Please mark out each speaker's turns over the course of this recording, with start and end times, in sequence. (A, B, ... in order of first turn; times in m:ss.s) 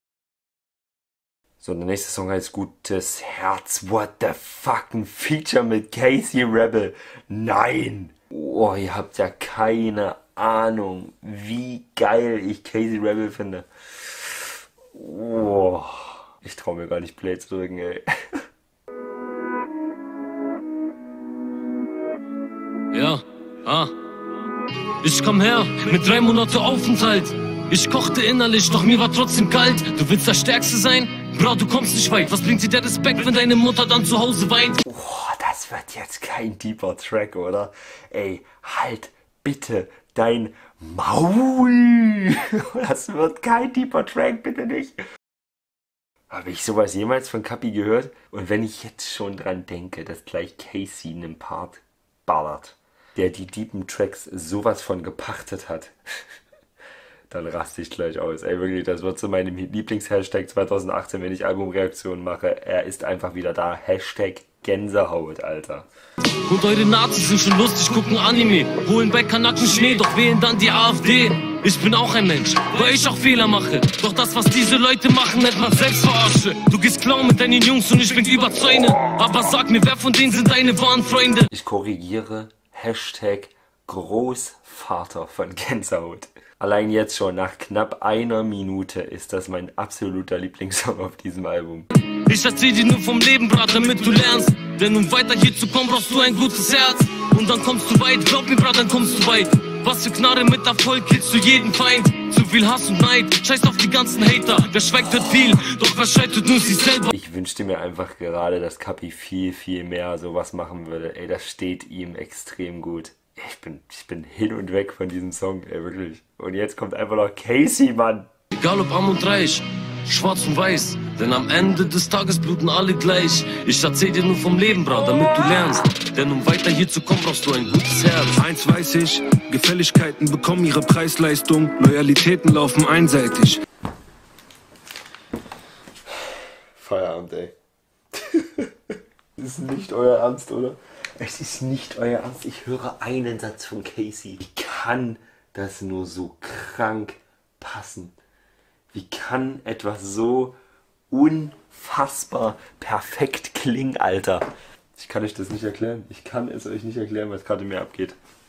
0:01.6-0:18.4 A
0:22.9-0:23.9 B
0:25.0-0:34.8 B
0:34.8-0:45.0 A
0:46.3-0:56.0 A
0:57.3-1:05.9 A
1:06.4-1:21.5 B
1:21.5-1:31.9 A
1:32.0-1:47.1 B
1:47.1-1:58.3 A
1:58.5-2:08.4 B
2:08.4-2:13.6 C
2:16.8-2:17.5 A
2:18.2-2:18.7 A
2:19.4-2:28.2 A
2:28.9-2:30.6 A
2:31.1-2:38.2 A